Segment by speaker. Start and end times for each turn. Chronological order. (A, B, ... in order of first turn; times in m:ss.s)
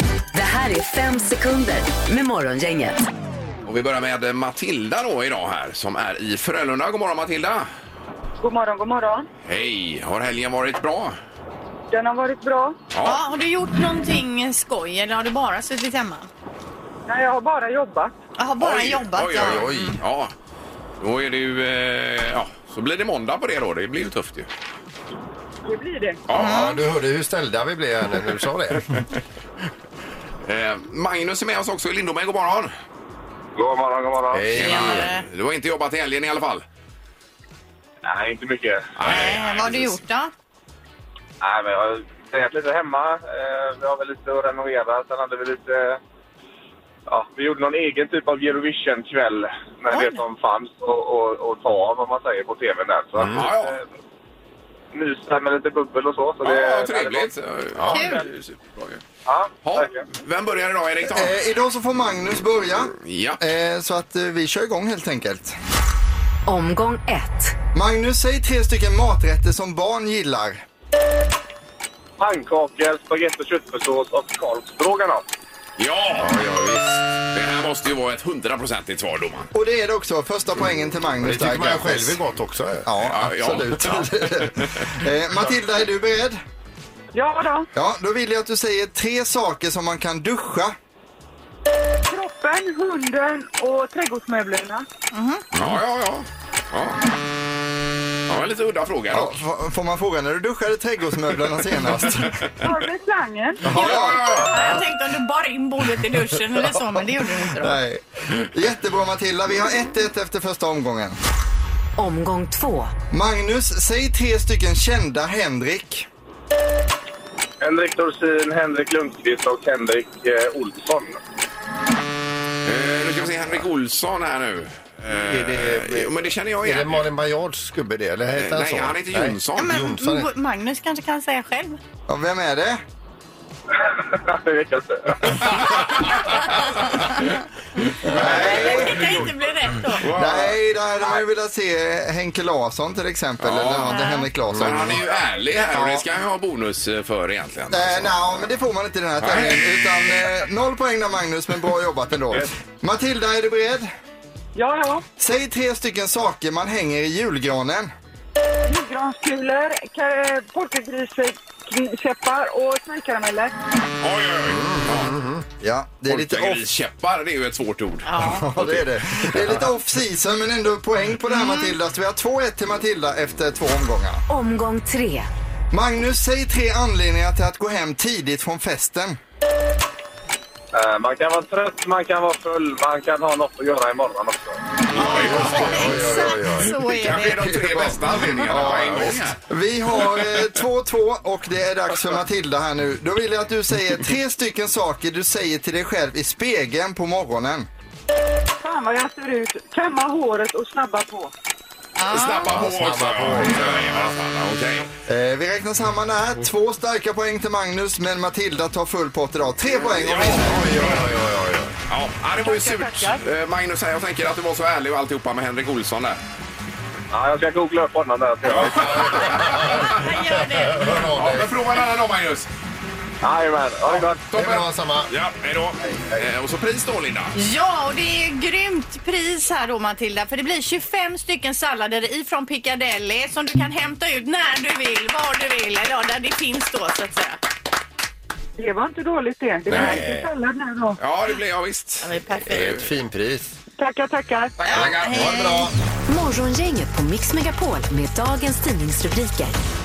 0:00.3-0:03.1 A
0:03.7-0:07.7 B
0:08.4-0:09.3 C
0:09.4-0:11.2 B
0:11.9-0:12.8 C
0:12.9-0:13.2 B
0:13.0-0:16.3 D
0:17.1-0:18.1 C
0:18.4-0:20.0 D
0:18.6-0:20.3 B
0:21.0-0:24.5 B
0:25.6-0:26.2 C
0:26.3-0:26.8 B
0:26.3-0:26.8 D
0:26.4-0:29.0 E
0:30.4-0:32.7 B
0:33.6-0:34.5 F
0:34.3-0:35.1 E
0:34.6-0:36.6 B
0:34.6-0:35.2 D
0:38.0-0:39.0 F
0:39.0-0:40.0 B
0:39.0-0:40.3 D
0:41.4-0:46.0 F
0:47.1-0:53.8 F
0:49.9-0:50.2 D
0:53.2-0:53.5 E
0:53.3-0:53.8 B
0:54.9-0:57.3 F
0:56.4-0:59.0 B
0:57.8-0:58.1 E
0:57.9-0:58.2 D
0:59.2-1:00.0 F
0:59.6-1:01.4 B
1:01.0-1:05.6 G
1:03.0-1:03.4 B
1:06.5-1:07.6 A
1:07.8-1:10.6 G
1:12.2-1:15.2 F
1:15.8-1:16.6 B
1:16.2-1:17.0 E
1:17.2-1:19.5 B
1:19.5-1:22.2 G
1:21.2-1:22.9 E
1:22.9-1:26.4 G
1:23.0-1:24.9 B
1:23.5-1:24.5 E
1:27.1-1:27.7 C
1:27.8-1:30.8 G
1:32.1-1:34.8 C
1:35.1-1:35.5 D
1:35.5-1:37.0 B
1:38.3-1:39.4 B
1:39.1-1:42.5 G
1:42.6-1:43.6 C
1:43.6-1:44.6 G
1:43.7-1:44.7 B
1:43.7-1:47.8 D
1:47.6-1:51.2 G
1:52.0-1:52.9 A
1:53.1-1:56.1 G
1:57.6-2:01.2 F
2:02.6-2:07.1 B
2:05.1-2:10.3 E
2:08.3-2:09.8 B
2:09.6-2:11.8 D
2:12.1-2:12.8 G
2:13.7-2:15.5 F
2:15.4-2:19.2 B
2:18.0-2:20.1 D
2:18.1-2:19.1 G
2:19.9-2:20.6 B
2:20.1-2:25.1 G
2:23.4-2:28.5 B
2:23.9-2:24.3 D
2:25.7-2:26.0 G
2:27.7-2:33.9 G
2:29.2-2:29.6 B
2:34.6-2:35.0 C
2:35.2-2:37.9 G
2:38.6-2:43.5 C
2:44.0-2:45.2 B
2:44.5-2:45.5 E
2:45.6-2:46.6 G
2:46.1-2:49.6 B
2:48.1-2:48.5 D
2:48.2-2:54.2 G
2:51.3-2:51.8 D
2:54.3-2:55.3 A
2:55.7-2:59.2 G
3:00.7-3:04.6 F
3:04.9-3:09.4 B
3:05.0-3:07.5 D
3:05.0-3:17.7 G
3:18.6-3:21.3 C
3:22.0-3:22.6 D
3:22.1-3:24.9 B
3:22.5-3:24.1 E
3:25.1-3:31.0 G
3:29.8-3:31.0 B
3:30.2-3:31.8 E
3:31.9-3:36.2 B
3:32.4-3:33.2 C
3:37.1-3:39.2 F
3:38.5-3:41.6 E
3:38.5-3:40.1 B
3:39.8-3:40.9 D
3:40.9-3:42.5 B
3:43.2-3:44.3 F
3:44.3-3:47.4 B
3:44.3-3:45.1 E
3:47.4-3:57.4 D
3:58.6-4:01.0 C
3:59.7-4:00.3 E
3:59.7-4:00.0 B
4:01.0-4:02.8 B
4:02.0-4:02.8 D
4:02.5-4:03.5 E
4:03.8-4:04.6 C
4:04.6-4:05.6 B
4:04.6-4:05.7 D
4:04.8-4:05.7 E
4:06.1-4:09.6 A